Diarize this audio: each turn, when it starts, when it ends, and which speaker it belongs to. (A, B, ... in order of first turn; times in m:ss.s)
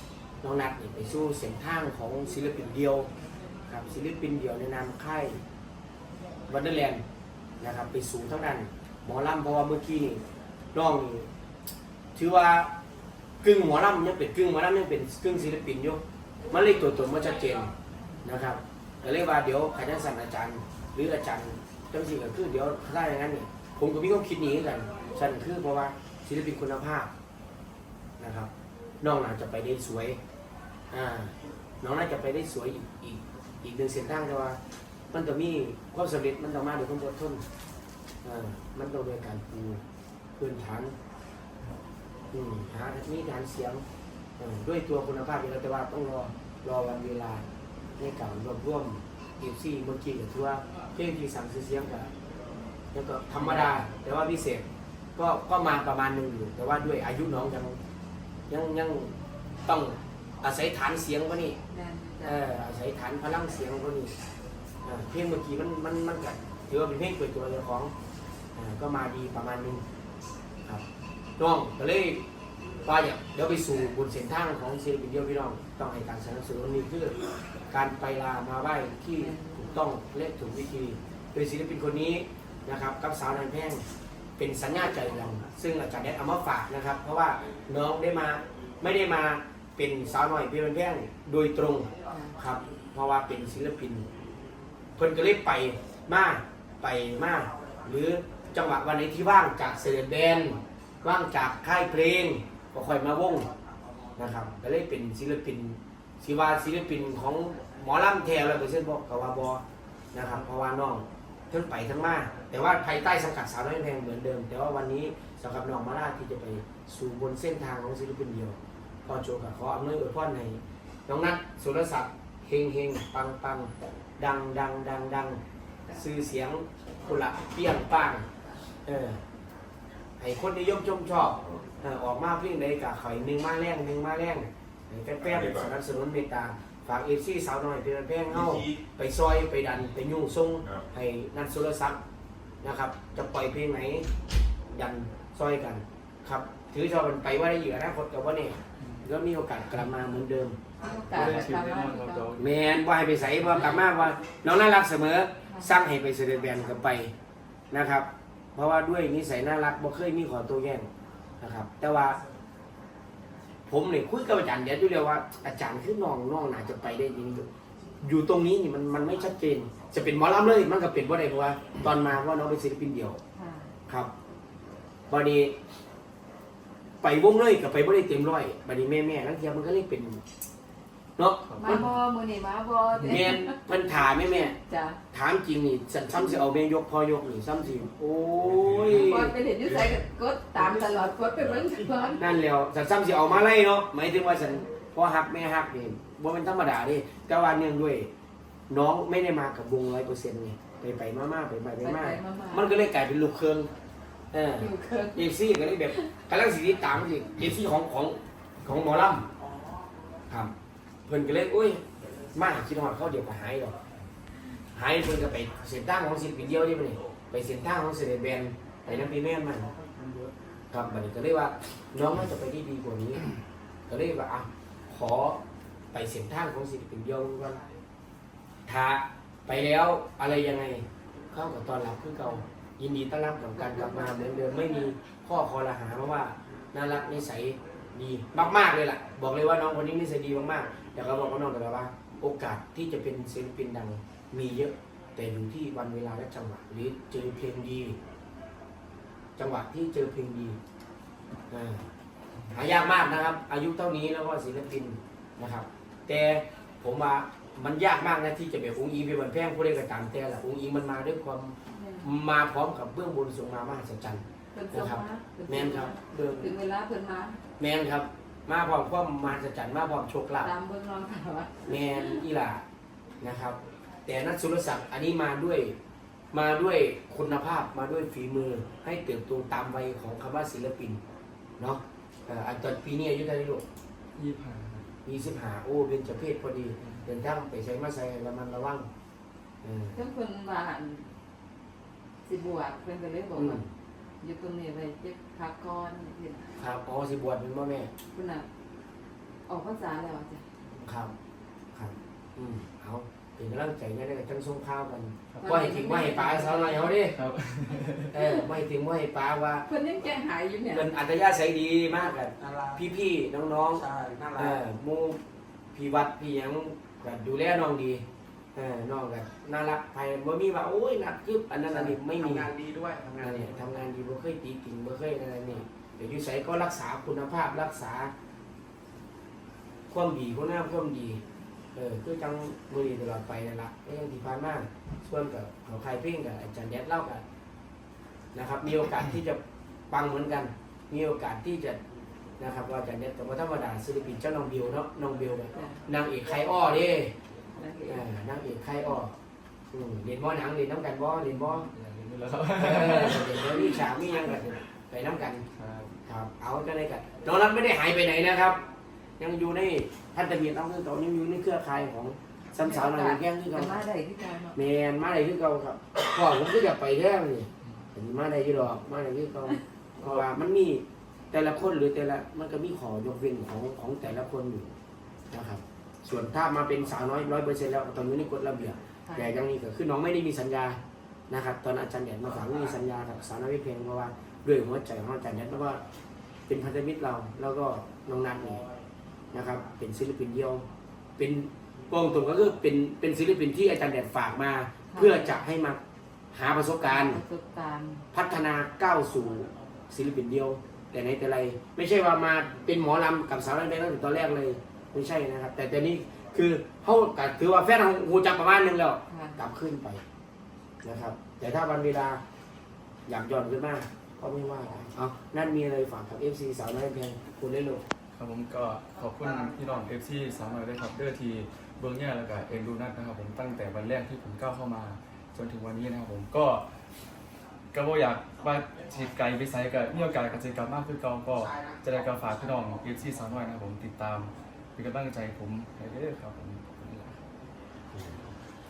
0:00.4-0:03.1 A
0:03.7-0:05.4 A
0:06.5-0:07.0 A
0:07.6-0:10.2 A
0:10.7-0:11.3 A
0:12.2-0:12.7 A
0:13.4-0:17.7 A
0:18.2-0:27.1 A
0:28.2-0:28.5 A
0:29.0-0:30.2 A
0:30.9-0:34.6 A
0:35.1-0:37.4 A
0:38.2-0:39.8 A
0:40.4-0:41.0 A
0:42.3-0:43.8 A
0:44.4-0:47.4 A
0:48.0-0:52.1 A
0:52.9-0:57.8 A
0:58.5-1:01.6 A
1:01.7-1:02.4 B
1:02.2-1:04.1 A
1:04.8-1:07.9 A
1:08.6-1:09.8 A
1:11.4-1:12.2 A
1:12.8-1:17.2 A
1:17.7-1:23.9 A
1:19.2-1:19.8 B
1:24.4-1:34.1 A
1:32.1-1:32.4 B
1:35.0-1:43.5 A
1:44.2-2:05.4 A
2:05.9-2:08.2 A
2:08.8-2:09.2 A
2:10.2-2:22.0 A
2:22.6-2:24.1 A
2:24.7-2:30.6 A
2:28.8-2:29.1 C
2:30.8-2:32.3 B
2:31.1-2:32.5 C
2:31.2-2:31.4 A
2:32.4-2:37.1 A
2:35.5-2:35.7 B
2:37.7-2:40.9 A
2:41.4-2:42.2 A
2:43.7-2:47.5 A
2:48.0-2:53.2 A
2:53.4-2:53.7 B
2:55.1-2:55.6 A
2:57.0-3:00.2 A
3:01.2-3:01.9 A
3:01.4-3:01.9 C
3:01.6-3:03.6 B
3:03.0-3:04.5 A
3:04.2-3:05.0 B
3:05.1-3:09.3 A
3:08.8-3:12.3 B
3:12.2-3:18.1 A
3:18.7-3:23.7 A
3:21.8-3:22.8 B
3:24.3-3:29.3 A
3:24.6-3:25.3 B
3:31.1-3:33.8 A
3:34.8-3:39.7 A
3:39.8-3:40.3 D
3:40.7-3:43.3 A
3:43.9-3:45.4 A
3:45.9-3:47.6 A
3:48.6-4:08.0 A
3:53.6-3:54.8 B
4:09.4-4:10.6 A
4:11.5-4:11.8 A
4:12.5-4:26.5 A
4:21.7-4:22.1 B
4:24.5-4:27.4 B
4:27.6-4:30.5 A
4:30.4-4:32.2 B
4:31.6-4:32.6 A
4:33.2-4:35.8 A
4:36.3-4:41.0 A
4:41.6-4:43.6 A
4:44.1-4:44.9 C
4:45.0-4:48.9 A
4:46.8-4:47.1 C
4:49.6-4:50.0 A
4:49.9-4:51.1 B
4:52.2-4:53.6 B
4:53.4-4:53.6 A
4:54.2-4:56.5 B
4:56.6-4:57.9 A
4:58.1-4:58.5 B
4:59.5-5:00.4 B
5:00.8-5:01.1 A
5:01.7-5:07.2 A
5:05.4-5:07.0 B
5:07.1-5:08.2 C
5:08.1-5:09.6 A
5:09.6-5:10.9 B
5:10.7-5:15.2 A
5:12.4-5:12.8 D
5:13.8-5:14.6 D
5:15.7-5:18.0 A
5:18.6-5:22.5 A
5:21.7-5:23.5 D
5:23.2-5:28.1 A
5:29.9-5:31.2 A
5:31.7-5:37.2 A
5:38.3-5:41.8 A
5:42.4-5:47.1 A
5:45.5-5:45.8 B
5:47.5-5:48.0 B
5:47.9-5:49.1 A
5:49.7-5:51.7 A
5:51.2-5:53.8 C
5:52.6-5:55.5 A
5:55.5-5:56.0 C
5:56.0-5:58.6 A
5:59.2-6:03.8 A
6:02.6-6:04.6 B
6:04.6-6:14.7 A
6:15.3-6:20.8 A
6:19.1-6:19.3 B
6:21.3-6:25.8 A
6:26.5-6:28.6 A
6:29.3-6:30.6 A
6:31.2-6:35.8 A
6:34.9-6:35.4 B
6:36.3-6:37.2 A
6:36.8-6:38.0 B
6:38.1-6:50.0 A
6:49.1-6:49.4 B
6:50.8-6:52.2 A
6:53.1-6:57.8 A
6:58.1-7:06.7 C
7:07.7-7:17.2 C
7:17.9-7:18.3 A